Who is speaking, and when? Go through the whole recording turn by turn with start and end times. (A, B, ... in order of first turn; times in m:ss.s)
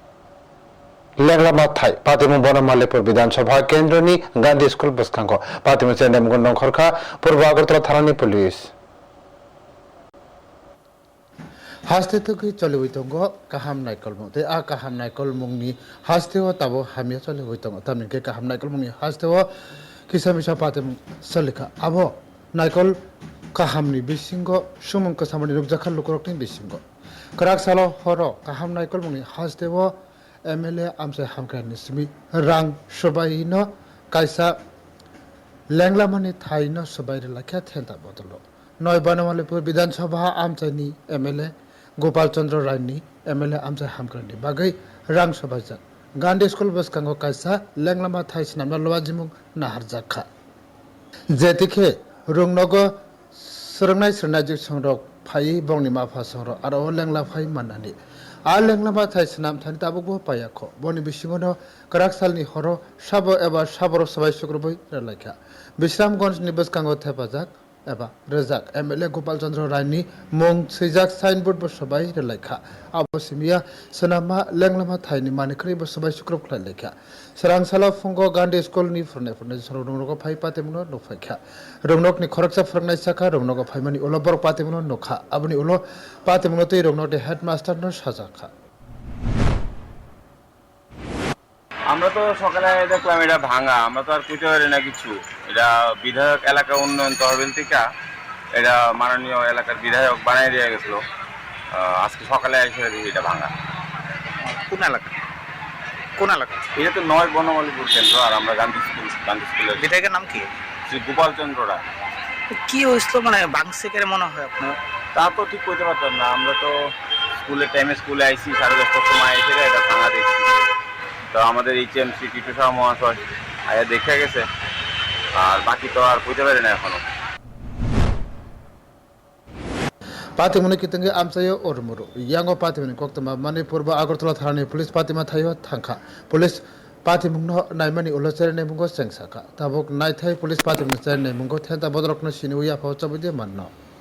0:01.2-0:08.7 A
0:11.9-0:19.5 B
0:20.1-0:22.9 B
0:23.5-0:26.8 B
0:27.4-0:29.9 B
0:30.5-0:34.5 B
0:35.7-0:50.3 B
0:51.3-0:58.0 B
0:58.5-1:28.5 B
1:31.9-1:37.8 C
1:38.6-1:41.0 C
1:41.7-1:43.5 C
1:44.4-1:45.1 D
1:46.2-1:46.7 D
1:46.8-1:49.9 C
1:49.8-1:50.5 D
1:50.9-1:51.8 C
1:52.5-1:54.8 D
1:55.1-1:56.7 C
1:57.4-2:00.5 C
2:01.3-2:04.4 C
2:05.3-2:07.0 C
2:10.4-2:23.7 B